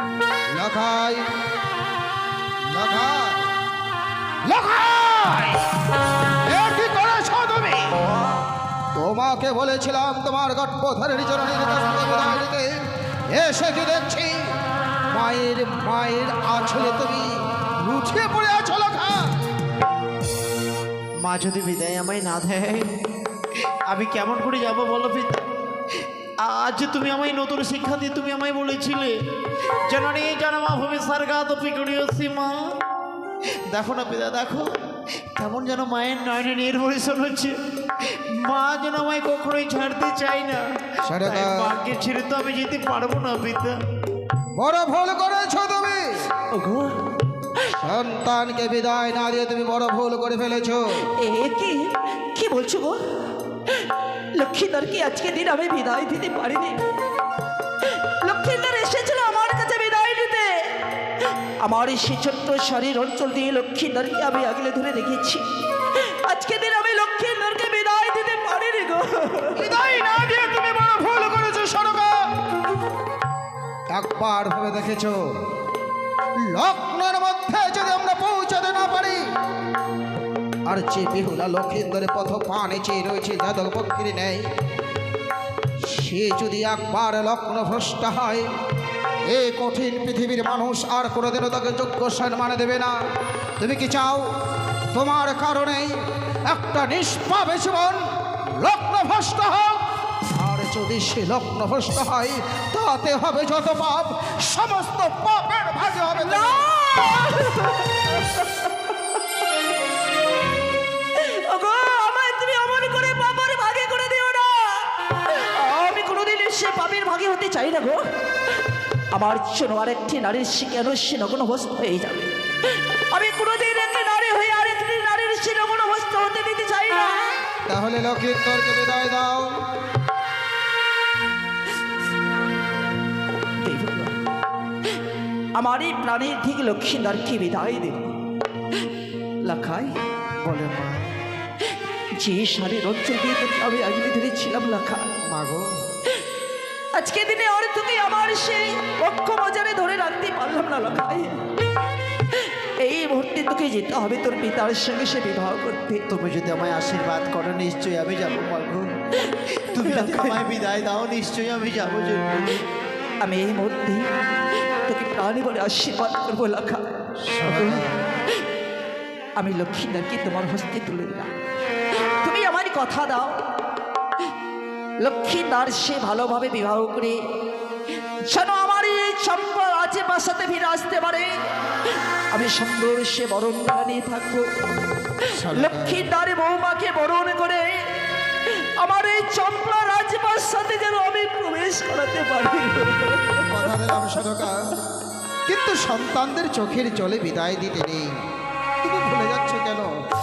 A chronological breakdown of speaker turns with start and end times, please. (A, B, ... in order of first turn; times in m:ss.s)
0:00.5-0:01.2 A
0:02.7-0:03.4 A
0:04.4-0:05.6 A
0:06.4-0:08.0 A
0:08.9-0:12.7 A
0:13.3-0:14.5 A
0:15.1-0:19.4 A
0:21.2-0:22.9 B
0:23.9-0:25.5 B
0:26.4-0:29.1 B
0:29.9-0:32.7 B
0:33.7-0:34.7 B
0:35.3-0:40.6 B
0:41.0-0:41.7 A
0:41.1-0:43.8 B
0:44.6-0:46.1 A
0:46.5-0:47.0 C
0:47.8-0:51.1 A
0:51.2-0:53.0 C
0:53.7-0:56.8 C
0:58.2-1:09.6 C
1:09.6-1:12.2 A
1:13.9-1:15.2 A
1:16.5-1:19.2 A
1:20.7-1:24.4 A
1:25.8-1:28.5 A
1:29.3-1:32.9 A
1:33.6-1:34.2 A
1:34.9-1:38.0 A
1:38.6-1:46.7 A
1:46.2-1:48.9 C
1:51.1-1:58.1 C
1:59.1-2:07.4 C
2:07.6-2:09.5 A
2:13.6-2:14.2 C
2:15.6-2:18.1 C
2:19.4-2:19.9 C
2:20.4-2:21.0 B
2:22.2-2:25.1 C
2:25.3-2:25.6 B
2:27.0-2:31.4 C
2:32.3-2:36.0 C
2:36.1-2:38.9 B
2:39.3-2:40.4 C
2:39.6-2:42.6 B
2:43.2-2:44.1 C
2:44.8-2:46.8 C
2:47.3-2:47.8 A
2:47.4-2:47.8 C
2:49.4-2:51.3 C
2:52.2-2:53.4 C
2:55.0-2:57.2 C
2:58.2-3:01.3 C
3:02.3-3:04.5 C
3:05.3-3:07.9 C
3:05.3-3:06.0 A
3:08.4-3:13.5 C
3:13.5-3:14.6 A
3:15.5-3:18.1 A
3:18.8-3:19.9 A